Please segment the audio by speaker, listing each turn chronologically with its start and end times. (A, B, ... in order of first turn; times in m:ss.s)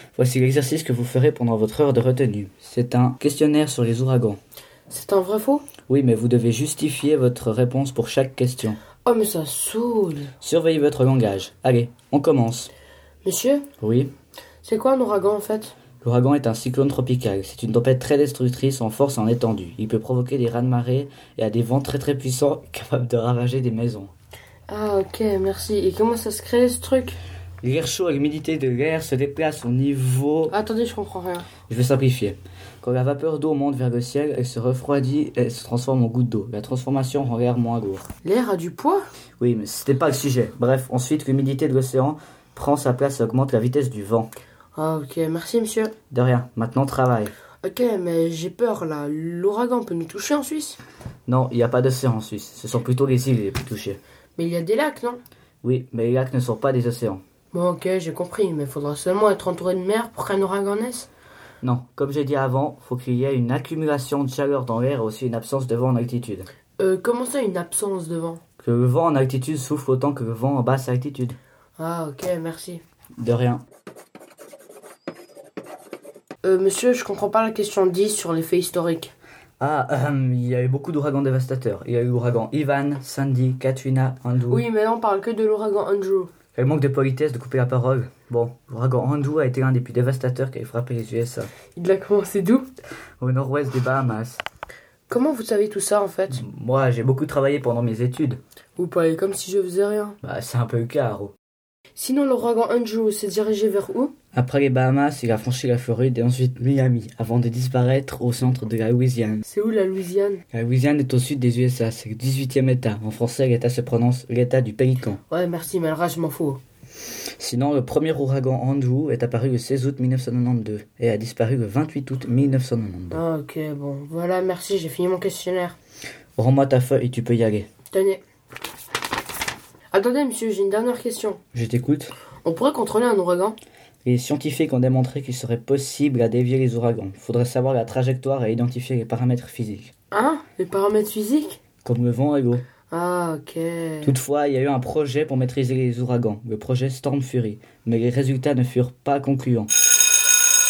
0:00.2-0:04.4 A
0:04.9-0:05.7 B
0:05.9-0:08.8 A
0:09.0-0:10.3 B
0:10.4-0:12.7 A
0:13.2-0:13.6 B
0:13.8-0:14.1 A
0:14.6-0:15.7 B
0:16.0-0:24.1 A
0:24.7-0:27.2 B
0:27.6-0:30.6 A
0:30.5-0:31.5 B
0:31.7-0:38.1 A
0:38.2-0:39.0 B
0:39.4-0:44.3 A
0:44.7-0:45.9 B
0:46.1-0:47.3 A
0:47.6-0:50.8 B
0:51.3-0:54.0 A
0:54.4-0:55.2 B
0:55.6-0:57.2 A
0:57.5-1:01.1 B
1:01.6-1:06.5 A
1:06.8-1:08.4 B
1:08.6-1:11.4 A
1:11.8-1:12.8 B
1:13.2-1:13.6 A
1:16.4-1:19.1 B
1:19.6-1:24.7 A
1:24.5-1:26.3 B
1:26.6-1:31.5 A
1:31.8-1:32.7 B
1:33.2-1:34.4 A
1:35.1-1:36.4 B
1:36.3-1:38.4 A
1:38.8-1:40.2 B
1:40.2-1:41.3 A
1:42.0-1:44.1 B
1:44.3-1:49.4 A
1:49.5-1:50.4 B
1:50.5-1:55.2 A
1:55.3-1:56.6 B
1:57.4-2:03.2 A
2:03.1-2:05.8 B
2:06.4-2:07.7 A
2:07.9-2:08.2 B
2:09.9-2:11.4 B
2:11.5-2:12.1 A
2:12.4-2:13.6 B
2:14.0-2:19.9 A
2:20.1-2:21.6 B
2:21.8-2:22.6 A
2:22.9-2:24.1 B
2:24.0-2:29.7 A